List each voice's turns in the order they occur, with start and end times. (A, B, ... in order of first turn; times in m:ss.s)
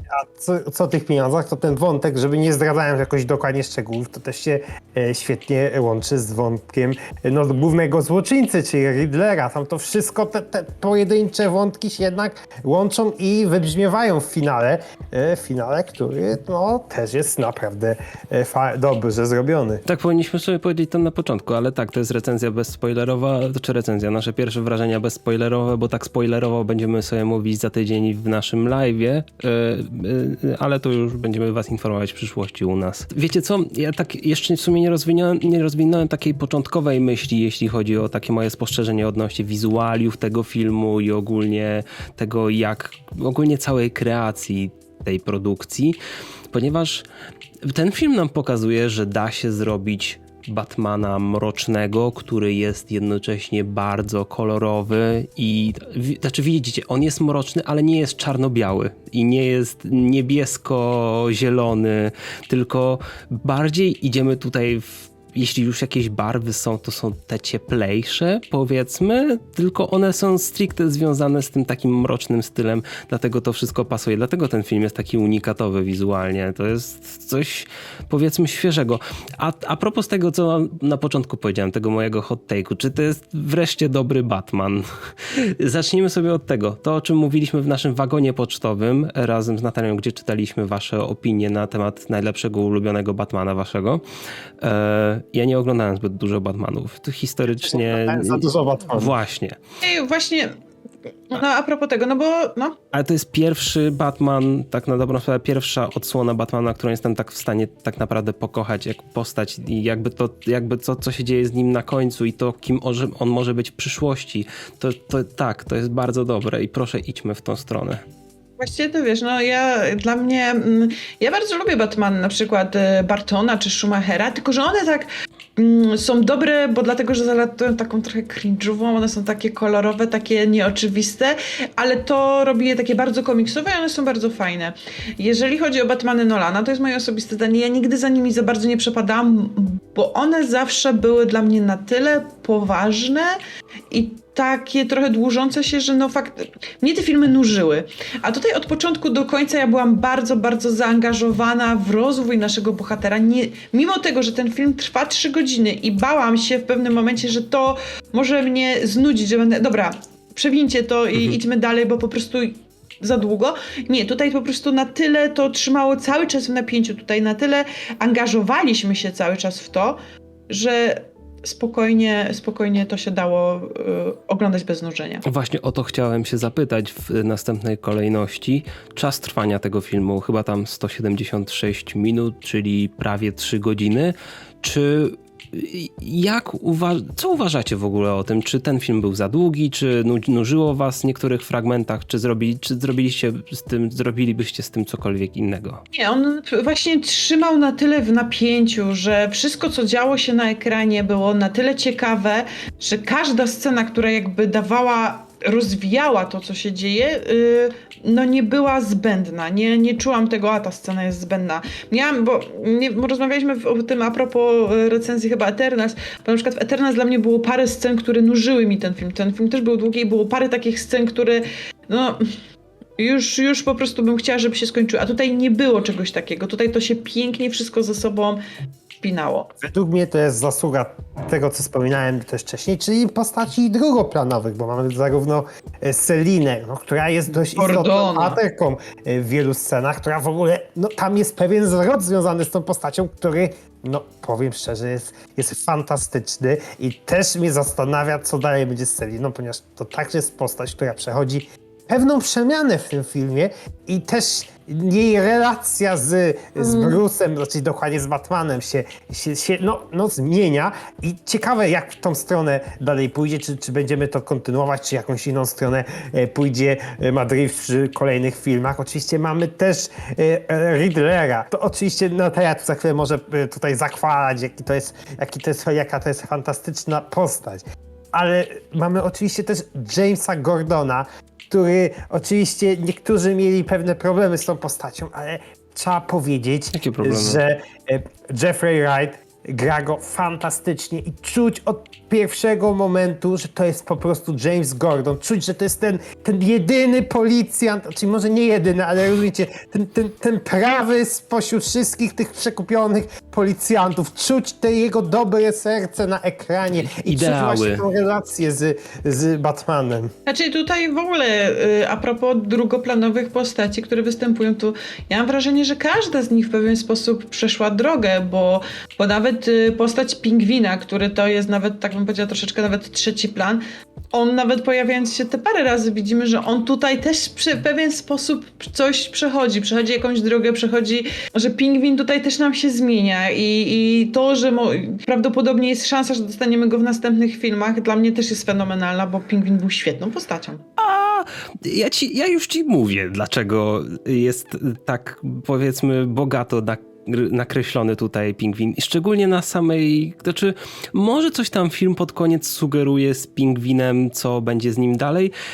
0:00.1-0:19.8 A
0:19.8-0:46.0 B
0:46.5-0:47.0 B
0:47.6-1:34.0 B
1:34.6-1:39.6 B
1:37.6-1:39.1 A
1:39.8-1:40.5 C
1:41.3-1:42.8 C
1:42.9-1:58.0 B
1:58.6-2:23.4 C
2:23.9-2:55.2 C
2:55.2-3:15.8 B
3:15.9-3:42.3 C
3:43.0-3:48.4 C
3:49.0-3:49.5 C
3:49.6-5:10.1 A
3:57.4-3:58.4 C
4:16.6-4:17.0 C
4:46.7-4:47.4 B
5:06.8-5:07.8 B
5:10.2-5:23.6 C
5:24.1-5:40.6 C
5:40.8-5:55.3 B